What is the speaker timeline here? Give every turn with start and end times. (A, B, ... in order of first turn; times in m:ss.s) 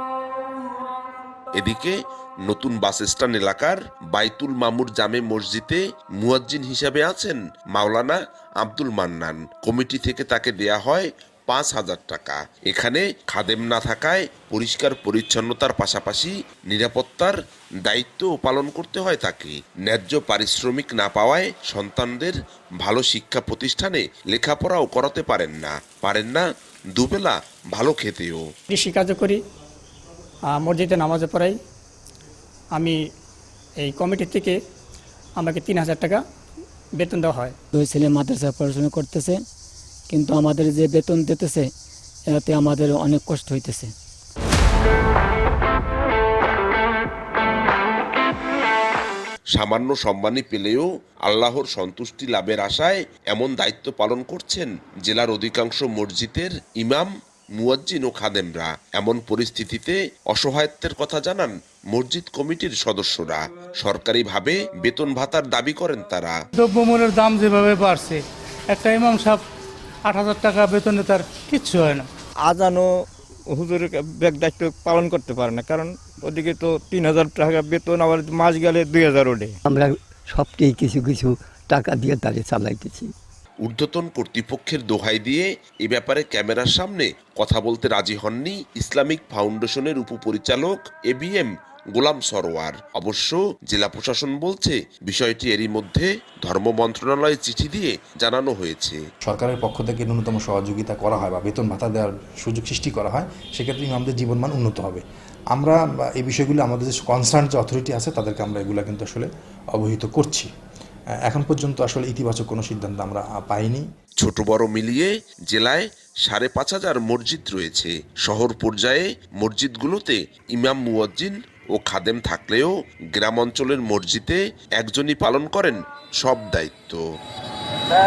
0:01.6-0:01.9 A
0:02.4-0:28.4 A
0:28.7-0:29.4 B
0:30.5-0:31.6 B
0:33.8-0:34.6 B
0:35.4-0:36.2 B
0:37.0-0:37.5 B
0:37.7-0:39.4 C
0:40.1-0:41.7 C
0:42.3-0:43.9 C
0:49.5-1:06.4 A
1:06.6-1:09.4 D
1:10.0-1:12.1 D
1:12.5-1:12.9 E
1:13.5-1:19.5 E
1:19.7-1:23.1 F
1:23.6-1:39.0 A
1:39.2-1:45.0 G
1:45.5-1:50.5 G
1:51.3-1:53.8 G
1:54.2-2:07.0 A